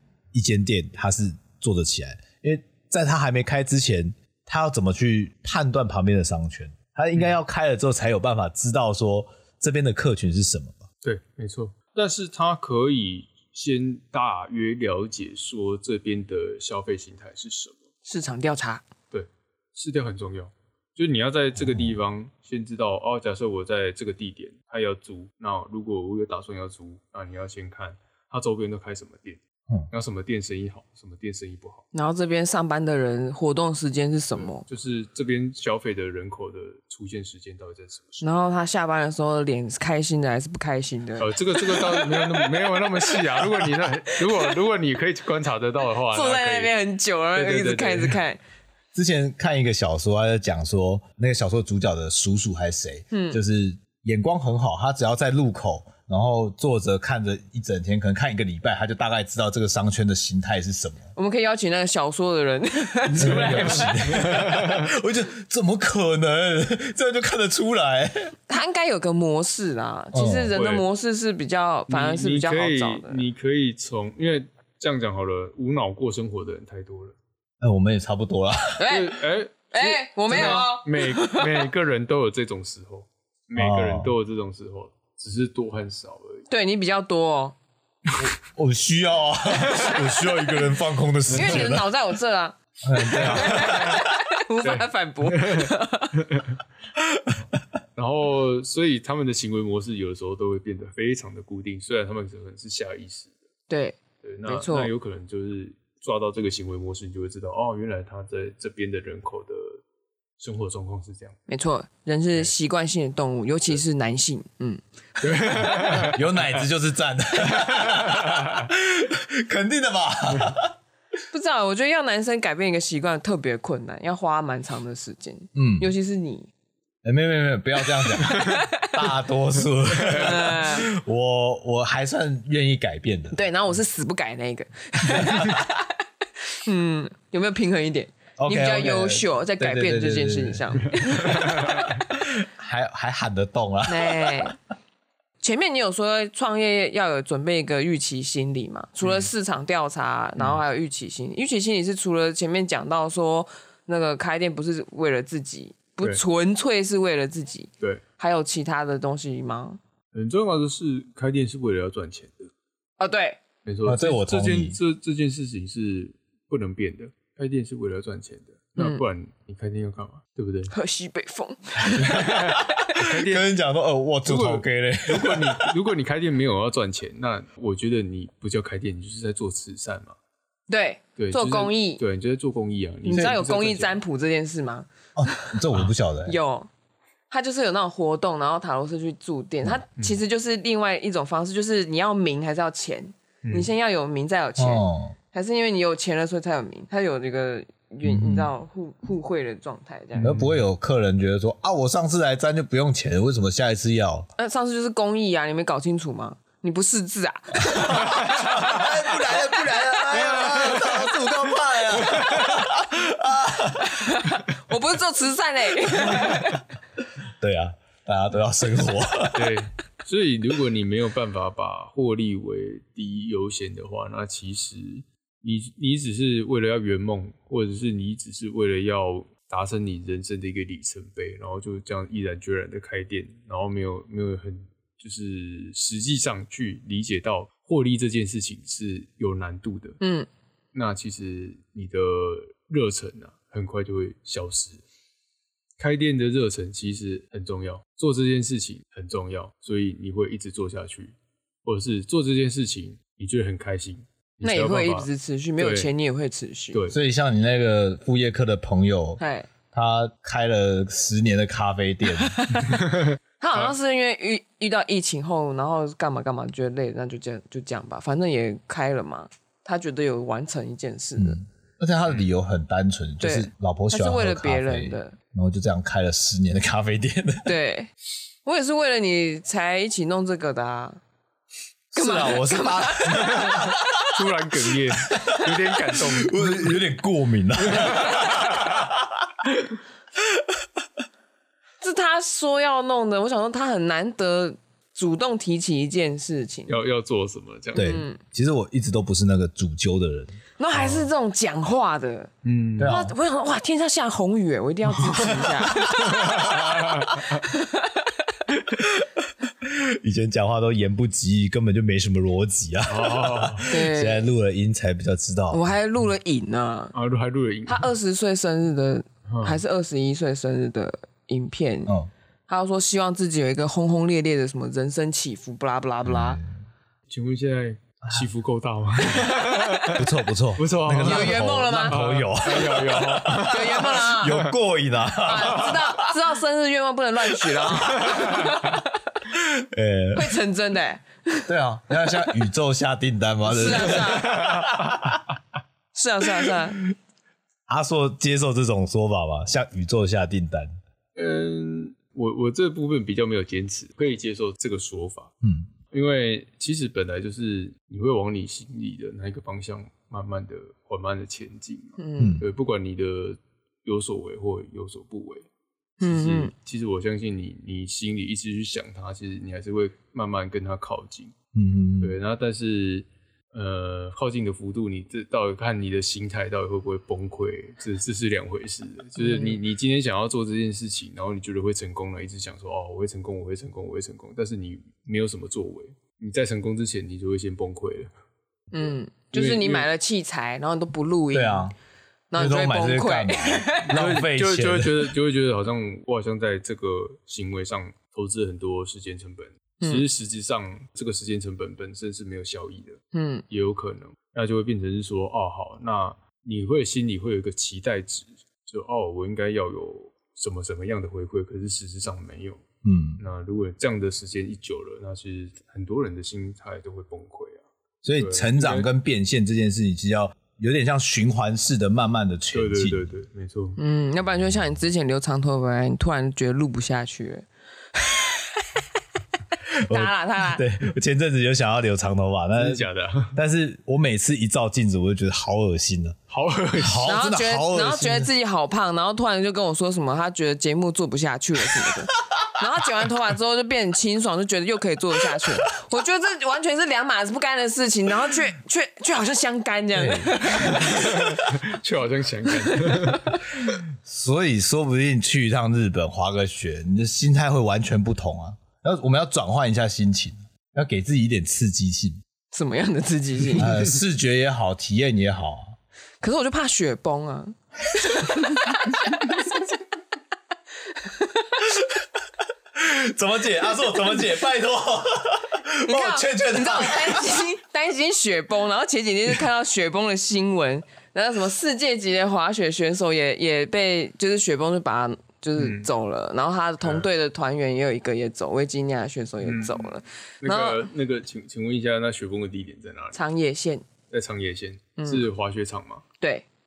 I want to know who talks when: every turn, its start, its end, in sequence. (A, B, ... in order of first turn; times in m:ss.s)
0:00.3-0:10.8 A
0:11.0-0:17.8 B
0:18.0-0:18.8 C
0:19.1-0:29.4 B
0:21.6-0:21.9 A
0:29.9-0:31.8 B
0:31.9-0:34.6 C
0:34.4-0:38.3 B
0:38.2-0:44.5 C
0:41.2-0:46.7 B
0:46.1-0:48.4 C
0:47.3-0:48.2 B
0:48.9-1:01.1 A
0:53.1-0:53.4 C
1:01.2-1:04.3 C
1:03.1-1:08.3 A
1:03.2-1:04.9 B
1:08.5-1:13.2 C
1:10.1-1:10.5 A
1:10.5-1:10.9 B
1:11.9-1:17.2 B
1:17.6-1:18.8 A
1:18.8-1:19.2 C
1:18.9-1:26.5 B
1:19.7-1:21.6 C
1:23.6-1:24.1 A
1:26.5-1:27.6 C
1:28.2-1:31.9 A
1:29.5-1:31.8 B
1:31.3-1:36.2 C
1:32.8-1:34.0 A
1:33.1-1:34.0 B
1:34.6-1:36.6 B
1:37.0-1:37.3 A
1:38.0-1:43.3 B
1:43.7-1:44.9 C
1:44.2-1:49.8 B
1:50.4-1:51.4 B
1:51.5-1:55.6 C
1:55.2-1:56.3 B
1:55.9-2:00.7 A
1:57.5-1:58.6 B
2:01.3-2:06.5 C
2:05.6-2:05.9 A
2:07.0-2:13.4 A
2:08.2-2:08.9 C
2:10.0-2:10.4 B
2:10.1-2:10.9 C
2:13.3-2:15.9 C
2:15.1-2:15.6 A
2:16.5-2:22.0 C
2:18.4-2:24.5 A
2:20.9-2:21.9 B
2:23.9-2:24.6 C
2:25.4-2:39.8 C
2:29.0-2:29.3 B
2:40.1-2:42.5 B
2:43.0-2:43.4 C
2:43.6-2:50.7 B
2:43.8-2:44.8 A
2:48.8-2:49.0 C
2:50.7-2:53.0 C
2:52.0-2:53.5 B
2:52.1-2:55.7 A
2:54.2-3:00.2 B
3:00.7-3:02.0 C
3:01.2-3:04.0 B
3:03.0-3:05.6 C
3:03.1-3:03.4 A
3:05.2-3:06.3 A
3:06.2-3:06.7 C
3:07.3-3:20.3 C
3:13.4-3:13.7 B
3:14.6-3:15.2 A
3:18.0-3:18.5 A
3:20.2-3:20.6 B
3:20.2-3:24.3 A
3:24.4-3:30.8 C
3:27.7-3:34.0 A
3:30.3-3:30.9 B
3:32.0-3:32.6 B
3:33.8-3:36.6 C
3:36.1-3:36.4 A
3:37.4-3:39.6 A
3:39.3-4:00.0 B
4:00.0-4:00.3 C
4:00.7-4:04.8 B
4:05.8-4:15.9 B
4:14.4-4:16.8 C
4:16.7-4:17.0 B
4:16.9-4:19.2 A
4:19.2-4:19.5 C
4:19.7-4:22.4 A
4:22.1-4:22.9 C
4:22.7-4:23.7 B
4:23.4-4:31.4 C
4:31.2-4:37.5 A
4:33.2-4:35.2 C
4:37.4-4:37.9 C
4:38.4-4:41.0 C
4:41.9-4:43.9 A
4:42.0-4:44.1 C
4:43.2-4:46.8 B
4:45.1-4:49.3 A
4:47.6-4:48.9 B
4:51.8-4:56.7 C
4:56.7-4:58.0 B
4:57.7-4:58.2 C
4:57.7-5:00.4 A
5:00.6-5:02.3 C
5:00.7-5:01.1 B
5:02.4-5:03.0 B
5:02.8-5:03.1 A
5:02.8-5:08.0 C
5:05.2-5:06.5 A
5:06.1-5:07.2 B
5:08.8-5:09.1 A
5:09.6-5:15.6 A
5:12.9-5:13.7 B
5:13.6-5:14.3 C
5:15.5-5:16.9 C
5:16.9-5:17.9 B
5:17.7-5:21.9 C
5:19.3-5:19.6 B
5:22.5-5:26.4 C
5:26.0-5:26.5 A
5:27.1-5:34.5 B
5:29.4-5:29.9 C
5:30.0-5:36.1 A
5:31.0-5:32.1 C
5:33.3-5:34.5 C
5:35.2-5:39.0 C
5:38.0-5:38.5 B
5:39.3-5:40.3 A
5:40.1-5:41.5 C
5:41.5-5:45.2 A
5:43.4-5:44.5 C
5:44.3-5:44.7 B
5:45.9-5:46.8 C
5:47.7-5:50.7 A
5:51.2-5:55.3 B
5:55.4-5:55.7 A
5:55.9-6:05.4 B
6:02.0-6:02.4 C
6:02.2-6:02.4 A
6:06.0-6:06.5 C
6:06.0-6:11.3 B
6:11.6-6:12.2 A
6:12.0-6:28.1 B
6:19.2-6:19.6 C
6:28.7-6:31.7 C
6:29.3-6:29.9 B
6:31.3-6:31.7 A
6:32.3-6:33.9 C
6:32.3-6:35.1 A
6:33.9-6:52.6 B
6:43.1-6:43.4 C
6:52.8-6:53.2 A
6:53.2-6:57.6 B
6:58.0-7:03.1 A
6:58.2-6:58.9 B
7:02.5-7:03.8 B
7:03.8-7:08.6 C
7:09.8-7:16.2 A
7:09.9-7:10.6 C
7:12.6-7:13.4 B
7:16.3-7:17.1 B
7:16.7-7:18.3 A
7:17.0-7:31.4 C
7:30.0-7:30.9 A
7:30.5-7:33.7 B
7:32.7-7:33.2 C
7:33.6-7:42.2 A
7:42.5-7:43.8 C
7:43.6-7:45.8 A
7:46.2-7:49.3 C
7:49.0-7:49.5 A
7:51.0-7:51.4 C
7:51.7-7:52.0 A
7:52.7-7:57.4 A
7:55.8-8:10.9 C
8:05.6-8:05.9 B
8:06.8-8:07.1 B
8:09.4-8:13.2 B
8:13.1-8:13.8 C
8:14.1-8:16.0 B
8:15.0-8:15.3 C
8:16.2-8:16.4 C